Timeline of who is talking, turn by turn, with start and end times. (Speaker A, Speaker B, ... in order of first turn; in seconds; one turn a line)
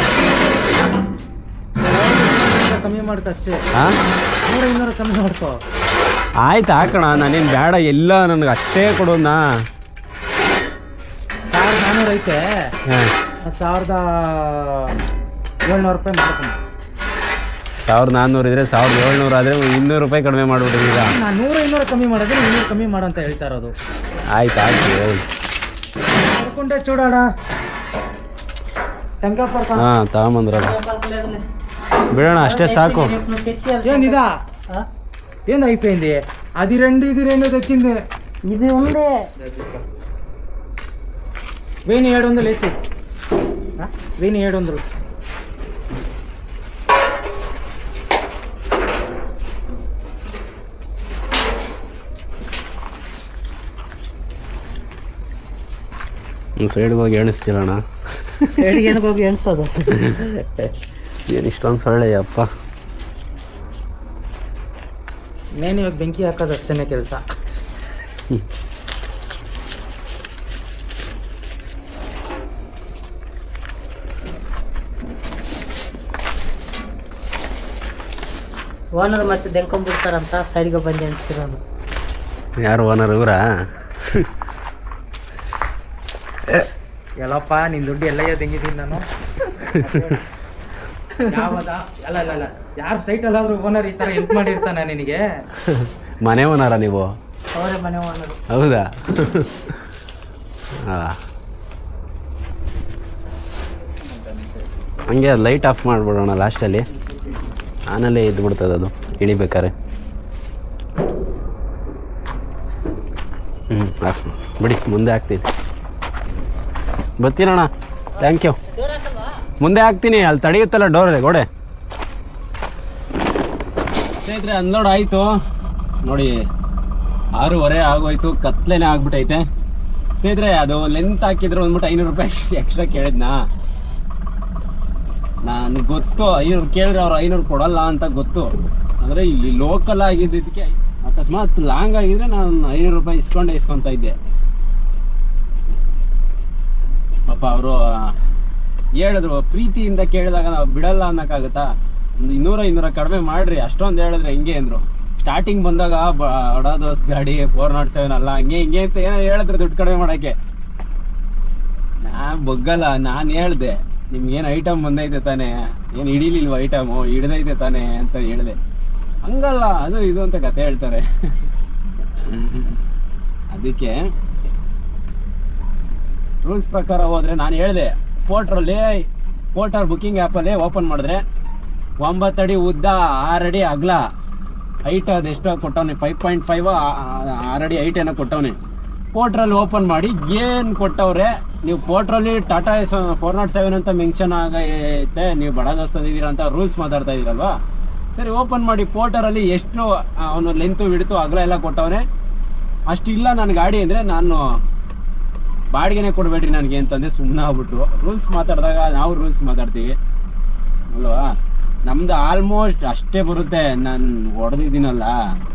Speaker A: 1.8-3.6
Speaker A: 4.5-5.6
Speaker B: 6.4-9.4
Speaker A: 11.5-12.4
Speaker B: 12.9-13.1
Speaker A: 13.4-14.9
Speaker A: 15.7-16.6
Speaker B: 17.9-21.2
Speaker A: 21.1-23.7
Speaker B: 24.3-25.3
Speaker A: 26.2-27.2
Speaker A: 29.2-29.9
Speaker B: 29.8-30.8
Speaker C: 30.5-31.4
Speaker B: 32.1-33.1
Speaker C: 32.3-34.9
Speaker A: 33.9-34.3
Speaker A: 35.5-38.0
Speaker C: 38.5-39.3
Speaker A: 41.9-42.7
Speaker A: 44.2-44.8
Speaker B: 56.6-58.7
Speaker C: 58.5-60.0
Speaker B: 60.0-60.7
Speaker B: 61.3-62.5
Speaker A: 65.6-67.2
Speaker C: 79.0-81.6
Speaker B: 82.6-84.3
Speaker A: 87.2-89.0
Speaker A: 89.8-90.2
Speaker A: 91.3-95.2
Speaker B: 95.7-97.1
Speaker C: 97.5-98.4
Speaker B: 98.5-99.8
Speaker B: 100.9-101.2
Speaker B: 105.1-106.8
Speaker B: 107.9-109.7
Speaker B: 113.7-115.5
Speaker B: 117.2-117.7
Speaker B: 118.2-118.6
Speaker C: 118.2-119.3
Speaker B: 119.6-121.5
Speaker B: 124.1-125.3
Speaker B: 126.0-126.3
Speaker B: 127.4-129.4
Speaker B: 130.2-133.3
Speaker B: 135.4-144.2
Speaker B: 147.3-148.2
Speaker B: 149.0-160.4
Speaker B: 162.0-168.6
Speaker B: 169.2-171.5
Speaker B: 172.1-172.8
Speaker B: 173.5-174.0
Speaker B: 176.4-181.2
Speaker B: 182.0-184.0
Speaker B: 184.9-188.6
Speaker B: 189.1-197.6
Speaker B: 198.1-202.1
Speaker B: 202.9-204.4
Speaker B: 205.7-210.0
Speaker B: 210.9-211.3
Speaker B: 211.8-215.2